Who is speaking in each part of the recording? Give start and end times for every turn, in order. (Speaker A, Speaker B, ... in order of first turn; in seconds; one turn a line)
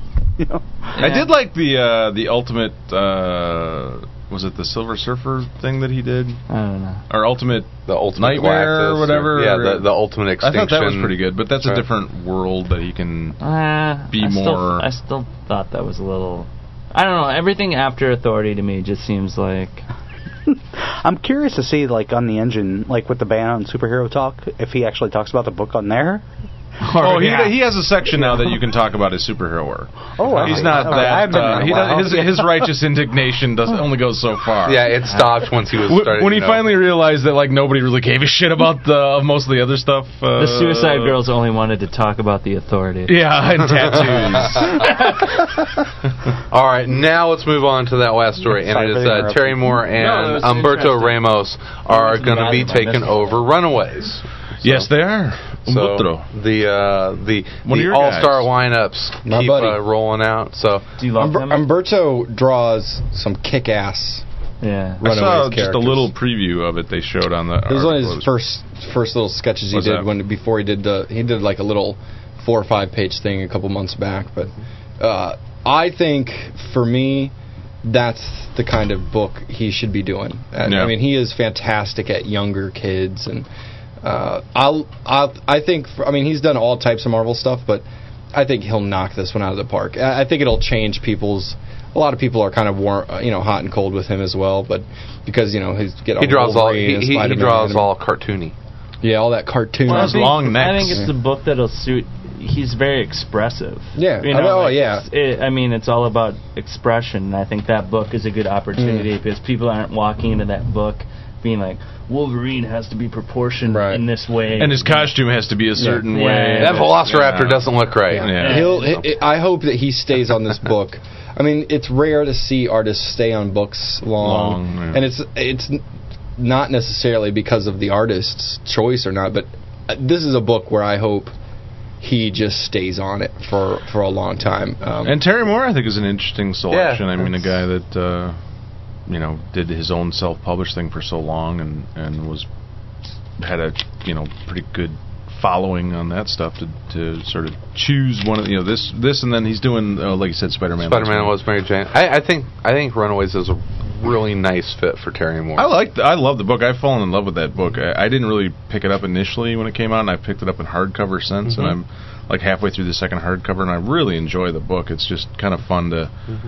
Speaker A: 0.4-0.7
Speaker B: 1.0-6.4
Speaker C: 1.0-1.3
Speaker C: 6.5-7.0
Speaker B: 7.1-13.4
Speaker D: 7.8-11.8
Speaker C: 13.4-19.8
Speaker B: 14.1-14.9
Speaker A: 20.5-26.2
Speaker C: 26.8-27.6
Speaker B: 27.0-35.0
Speaker A: 30.2-32.7
Speaker D: 30.4-31.9
Speaker C: 30.8-31.2
Speaker D: 34.6-36.7
Speaker B: 35.8-41.2
Speaker C: 40.4-43.2
Speaker B: 43.0-45.0
Speaker D: 43.8-44.9
Speaker C: 44.6-45.2
Speaker D: 46.5-54.9
Speaker A: 48.5-49.8
Speaker C: 49.9-51.2
Speaker C: 51.9-53.4
Speaker B: 54.6-56.3
Speaker D: 55.6-60.8
Speaker B: 57.6-58.5
Speaker E: 59.2-59.8
Speaker C: 61.0-61.6
Speaker E: 61.2-64.2
Speaker C: 64.6-65.0
Speaker E: 65.0-66.1
Speaker B: 65.0-68.3
Speaker E: 67.7-83.5
Speaker B: 69.7-70.0
Speaker B: 80.6-80.9
Speaker E: 84.0-97.9
Speaker D: 96.2-98.5
Speaker E: 99.0-100.4
Speaker B: 99.9-101.1
Speaker C: 99.9-115.2
Speaker E: 104.0-105.0
Speaker E: 108.8-109.1
Speaker E: 113.7-114.0
Speaker B: 114.5-118.9
Speaker E: 115.8-116.1
Speaker C: 116.1-116.9
Speaker D: 116.6-118.4
Speaker E: 118.1-125.8
Speaker C: 118.4-119.0
Speaker B: 124.2-125.0
Speaker E: 126.4-131.3
Speaker E: 132.0-135.2
Speaker B: 135.0-138.3
Speaker D: 136.7-137.4
Speaker B: 139.1-142.4
Speaker B: 143.4-151.3
Speaker D: 150.8-155.7
Speaker B: 155.6-166.1
Speaker D: 161.5-161.7